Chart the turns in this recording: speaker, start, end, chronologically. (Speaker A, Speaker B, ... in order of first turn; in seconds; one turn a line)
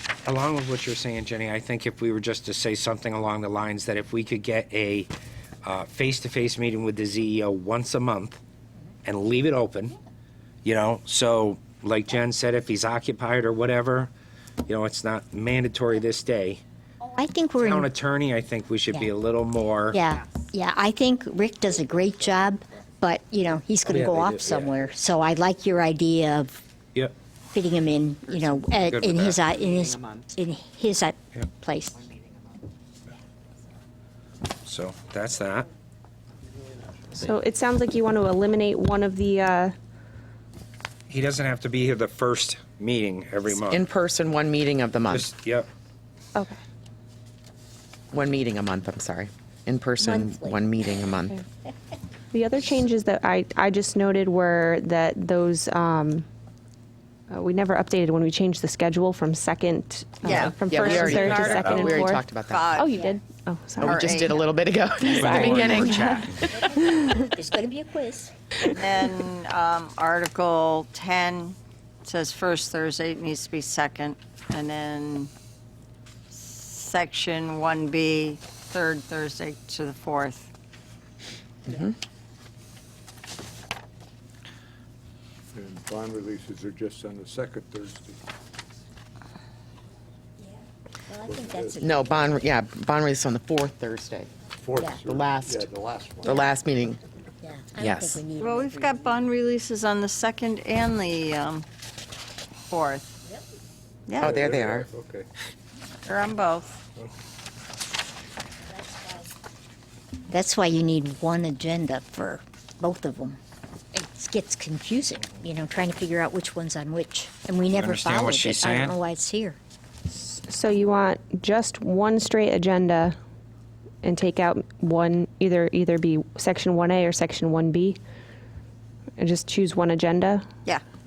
Speaker A: 0.2-5.1
Speaker A: 5.6-8.4
Speaker A: 9.1-9.9
Speaker A: 10.6-14.1
Speaker A: 14.7-16.6
Speaker B: 17.1-17.9
Speaker A: 17.6-20.0
Speaker B: 19.9-26.6
Speaker A: 23.9-24.8
Speaker B: 27.5-32.0
Speaker A: 28.9-29.4
Speaker A: 34.6-35.7
Speaker C: 37.1-39.7
Speaker A: 41.1-43.8
Speaker D: 43.5-45.3
Speaker A: 45.1-45.7
Speaker D: 48.1-51.4
Speaker B: 50.0-50.6
Speaker C: 52.3-56.3
Speaker C: 57.3-62.2
Speaker E: 60.2-62.9
Speaker D: 60.6-62.8
Speaker C: 62.7-64.3
Speaker B: 62.9-63.2
Speaker D: 63.8-66.3
Speaker E: 63.8-64.5
Speaker C: 65.0-67.1
Speaker A: 65.2-66.4
Speaker B: 66.5-68.3
Speaker E: 68.8-75.3
Speaker E: 76.3-80.5
Speaker D: 81.7-82.0
Speaker F: 85.5-88.2
Speaker B: 91.1-92.4
Speaker F: 91.2-91.8
Speaker D: 91.8-94.3
Speaker F: 94.6-96.4
Speaker D: 95.0-95.7
Speaker D: 96.2-97.0
Speaker B: 97.4-99.0
Speaker D: 97.8-98.2
Speaker E: 98.3-101.7
Speaker E: 102.7-103.2
Speaker E: 104.1-104.4
Speaker D: 104.2-104.9
Speaker F: 104.2-105.3
Speaker E: 106.0-106.8
Speaker B: 110.3-113.4
Speaker B: 113.9-119.6
Speaker A: 117.7-119.0
Speaker C: 120.1-123.2
Speaker C: 124.0-128.0
Speaker C: 129.2-130.5